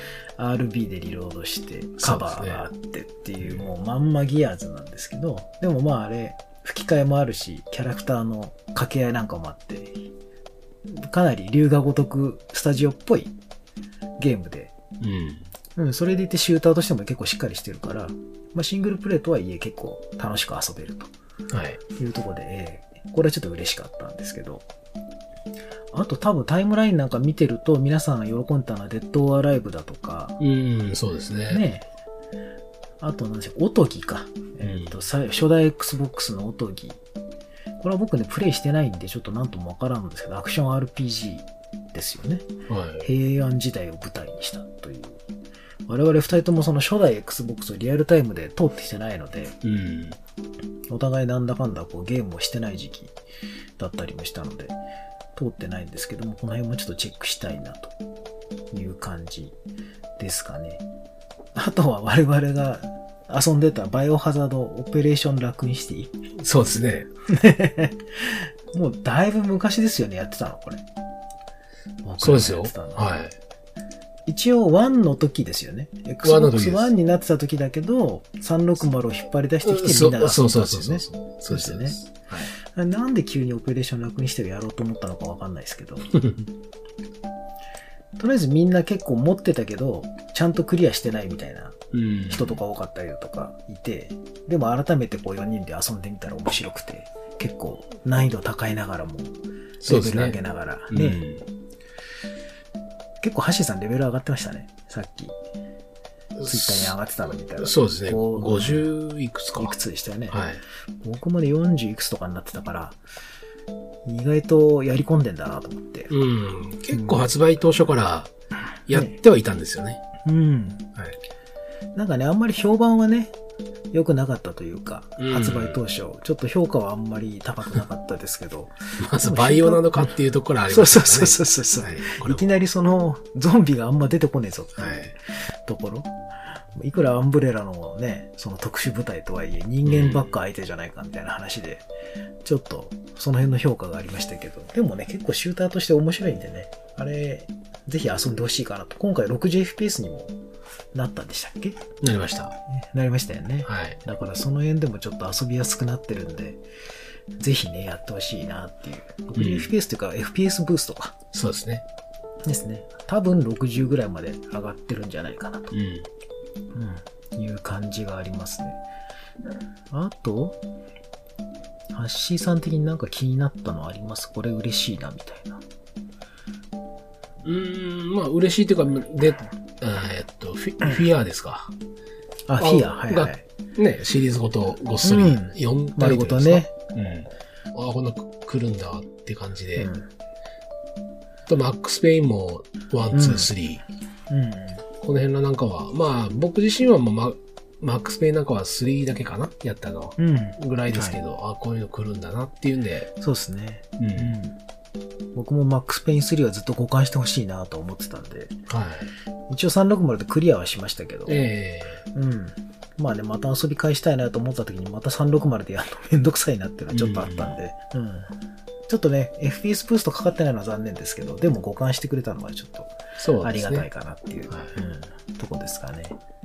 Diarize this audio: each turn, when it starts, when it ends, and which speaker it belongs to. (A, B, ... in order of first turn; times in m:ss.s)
0:00.4-0:10.1 A
0:02.0-0:02.6 B
0:10.9-0:13.3 A
0:14.2-0:14.7 A
0:15.0-0:15.5 B
0:15.8-0:21.1 A
0:21.5-0:21.8 B
0:22.0-0:24.6 A
0:25.9-0:30.4 A
0:30.4-0:31.6 B
0:31.5-0:31.8 A
0:33.0-0:37.0 A
0:34.6-0:35.0 B
0:37.8-0:42.5 A
0:42.7-0:43.1 B
0:43.0-0:45.2 A
0:45.9-0:49.6 A
0:49.6-0:50.2 B
0:50.9-0:53.1 A
0:53.8-0:54.8 A
0:55.4-0:57.9 A
0:58.7-0:59.6 A
1:00.2-1:00.8 A
1:01.6-1:06.2 A
1:06.4-1:07.1 B
1:07.3-1:10.8 A
1:12.0-1:13.2 A
1:12.2-1:13.4 B
1:14.3-1:26.2 A
1:16.2-1:16.9 B
1:19.6-1:22.0 B
1:26.2-1:26.5 B
1:28.2-1:41.2 A
1:31.9-1:32.6 B
1:39.8-1:40.4 B
1:40.9-1:41.5 B
1:43.2-1:45.4 A
1:46.4-1:46.9 B
1:46.4-1:48.9 A
1:47.6-1:49.8 B
1:49.6-1:50.4 A
1:50.3-1:50.6 B
1:51.0-1:53.0 A
1:54.1-1:56.1 A
1:56.1-1:58.3 B
1:56.9-1:57.3 A
1:58.9-2:00.0 B
2:00.2-2:00.8 A
2:02.0-2:03.3 A
2:03.9-2:10.0 A
2:05.2-2:05.8 B
2:09.0-2:12.4 B
2:10.7-2:16.1 A
2:14.8-2:15.1 B
2:16.8-2:21.8 A
2:19.8-2:20.3 B
2:22.4-2:30.3 A
2:30.9-2:31.8 A
2:32.0-2:32.6 B
2:32.7-2:36.6 A
2:33.6-2:34.0 B
2:37.4-2:41.2 A
2:39.4-2:39.7 B
2:41.3-2:41.8 B
2:42.4-2:45.8 A
2:45.7-2:46.1 B
2:46.7-2:48.8 A
2:49.9-2:50.6 A
2:51.9-2:55.6 A
2:57.4-3:01.7 B
3:02.5-3:03.4 A
3:02.6-3:09.9 B
3:05.0-3:06.7 A
3:09.8-3:10.1 A
3:11.5-3:13.8 B
3:13.1-3:13.5 A
3:14.3-3:14.8 A
3:15.0-3:23.1 B
3:20.2-3:21.2 A
3:23.2-3:24.6 A
3:24.0-3:24.3 B
3:25.4-3:28.6 A
3:28.7-3:29.1 B
3:29.5-3:31.5 A
3:31.3-3:32.0 B
3:32.1-3:38.3 A
3:36.9-3:37.6 B
3:38.9-3:46.2 A
3:43.2-3:43.9 B
3:44.5-3:44.7 B